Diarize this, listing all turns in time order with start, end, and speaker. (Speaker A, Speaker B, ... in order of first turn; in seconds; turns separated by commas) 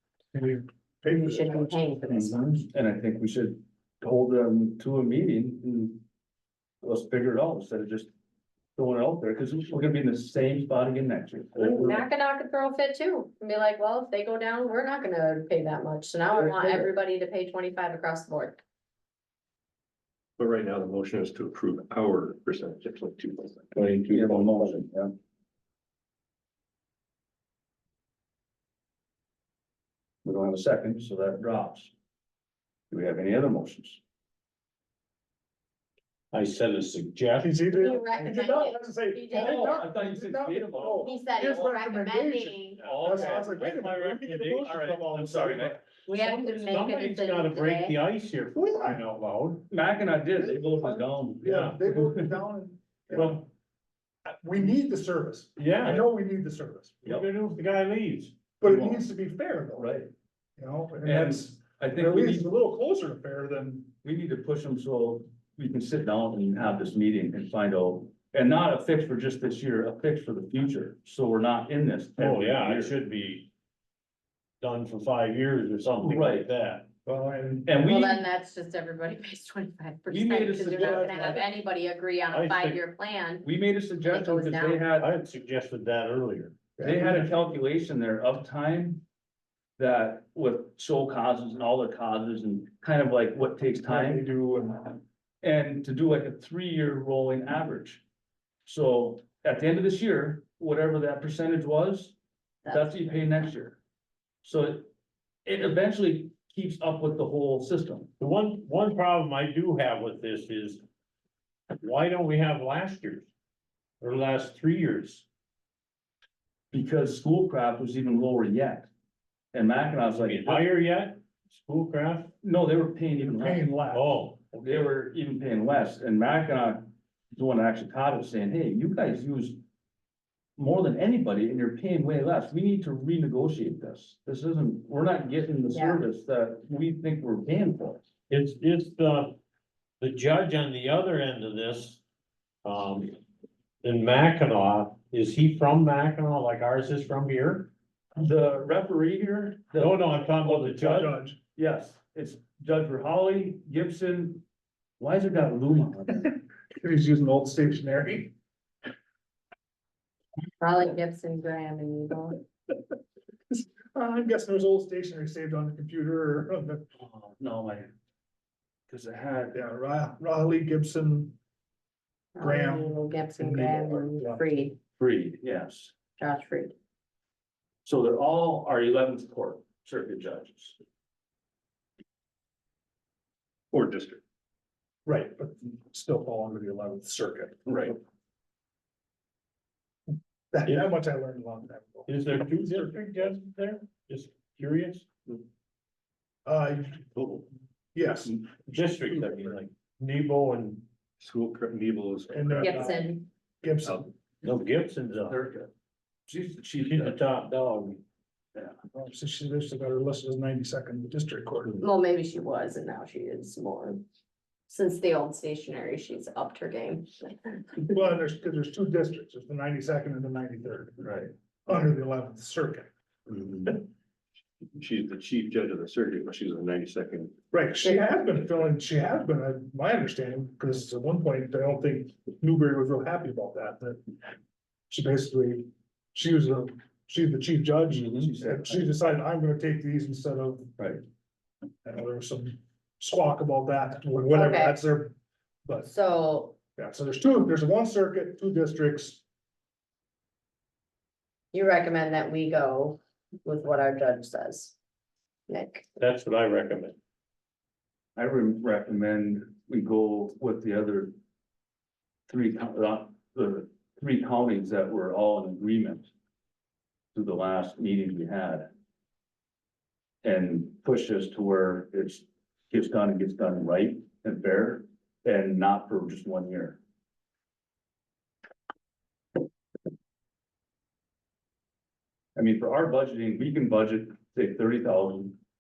Speaker A: 0.3-1.8, Speaker B: 1.1-2.6, Speaker C: 2.1-6.0, Speaker C: 6.8-8.1, Speaker C: 8.8-11.9, Speaker B: 11.6-18.6, Speaker C: 16.4-16.9, Speaker D: 20.4-24.8, Speaker C: 24.1-25.1, Speaker C: 30.2-31.9, Speaker C: 32.9-34.0, Speaker E: 36.3-37.5, Speaker A: 37.4-45.8, Speaker B: 37.7-39.8, Speaker C: 39.3-41.2, Speaker B: 41.0-42.9, Speaker E: 42.8-45.1, Speaker C: 42.8-43.5, Speaker C: 44.8-45.8, Speaker B: 46.1-48.0, Speaker E: 46.1-49.6, Speaker A: 48.6-49.0, Speaker C: 49.7-52.4, Speaker A: 50.4-53.5, Speaker E: 51.5-51.8, Speaker E: 53.1-53.5, Speaker A: 54.3-57.0, Speaker E: 55.6-56.1, Speaker E: 57.0-58.5, Speaker A: 58.6-60.0, Speaker C: 58.6-59.0, Speaker C: 59.8-60.1, Speaker A: 60.6-63.9, Speaker C: 61.0-62.5, Speaker C: 64.0-72.9, Speaker E: 72.2-73.5, Speaker E: 74.6-76.9, Speaker C: 76.0-76.5, Speaker A: 77.0-77.7, Speaker C: 77.7-78.2, Speaker B: 77.8-83.5, Speaker C: 80.1-81.4, Speaker E: 80.6-81.5, Speaker E: 82.3-82.8, Speaker C: 83.4-85.1, Speaker B: 84.0-84.9, Speaker E: 85.0-86.6, Speaker A: 86.8-87.3, Speaker C: 86.8-89.0, Speaker C: 89.8-94.2, Speaker A: 93.9-95.0, Speaker C: 95.4-98.0, Speaker C: 98.7-102.2, Speaker B: 102.6-103.1, Speaker C: 102.7-103.8, Speaker C: 104.4-104.9, Speaker C: 105.5-108.1, Speaker E: 108.2-110.8, Speaker E: 111.8-113.3, Speaker E: 114.0-115.3, Speaker C: 116.7-118.9, Speaker C: 119.5-120.6, Speaker E: 120.1-122.3, Speaker C: 122.4-123.7, Speaker A: 123.2-124.2, Speaker E: 123.9-124.9, Speaker C: 124.7-129.6, Speaker C: 130.6-138.0, Speaker B: 135.7-136.0, Speaker E: 138.3-139.4, Speaker E: 140.0-142.0, Speaker E: 142.6-143.2, Speaker E: 143.8-147.7, Speaker C: 148.2-150.0, Speaker E: 149.8-151.2, Speaker A: 150.4-151.4, Speaker C: 151.1-154.4, Speaker C: 155.0-156.4, Speaker A: 156.8-158.3, Speaker B: 160.6-162.4, Speaker A: 163.5-166.9, Speaker C: 167.1-167.9, Speaker C: 168.9-169.6, Speaker A: 169.5-171.4, Speaker B: 172.3-174.8, Speaker A: 172.4-174.5, Speaker C: 175.0-175.9, Speaker B: 176.2-176.8, Speaker C: 177.8-180.8, Speaker D: 183.7-184.2, Speaker A: 185.1-187.8, Speaker A: 190.5-193.3, Speaker E: 192.1-195.1, Speaker A: 196.5-197.0, Speaker D: 197.2-197.4, Speaker A: 197.9-198.3, Speaker E: 198.7-200.8, Speaker D: 201.2-202.6, Speaker A: 202.3-204.1, Speaker B: 202.6-203.3, Speaker E: 204.4-205.4, Speaker C: 205.3-205.7, Speaker C: 206.3-207.2, Speaker E: 206.8-208.0, Speaker A: 208.9-211.8, Speaker B: 211.8-214.0, Speaker B: 214.7-217.9, Speaker A: 217.9-221.1, Speaker C: 221.0-221.3, Speaker A: 221.7-222.9, Speaker D: 223.3-223.8, Speaker D: 224.8-227.3, Speaker A: 227.5-234.0, Speaker A: 234.9-240.8, Speaker C: 237.9-238.9, Speaker A: 241.8-245.9, Speaker B: 244.3-244.8, Speaker B: 245.8-246.6, Speaker A: 246.8-249.2, Speaker B: 251.5-254.8, Speaker B: 255.5-255.9, Speaker E: 256.0-257.0, Speaker C: 258.2-261.1, Speaker C: 262.3-266.1, Speaker C: 267.1-268.7, Speaker C: 270.2-276.8, Speaker C: 282.4-285.4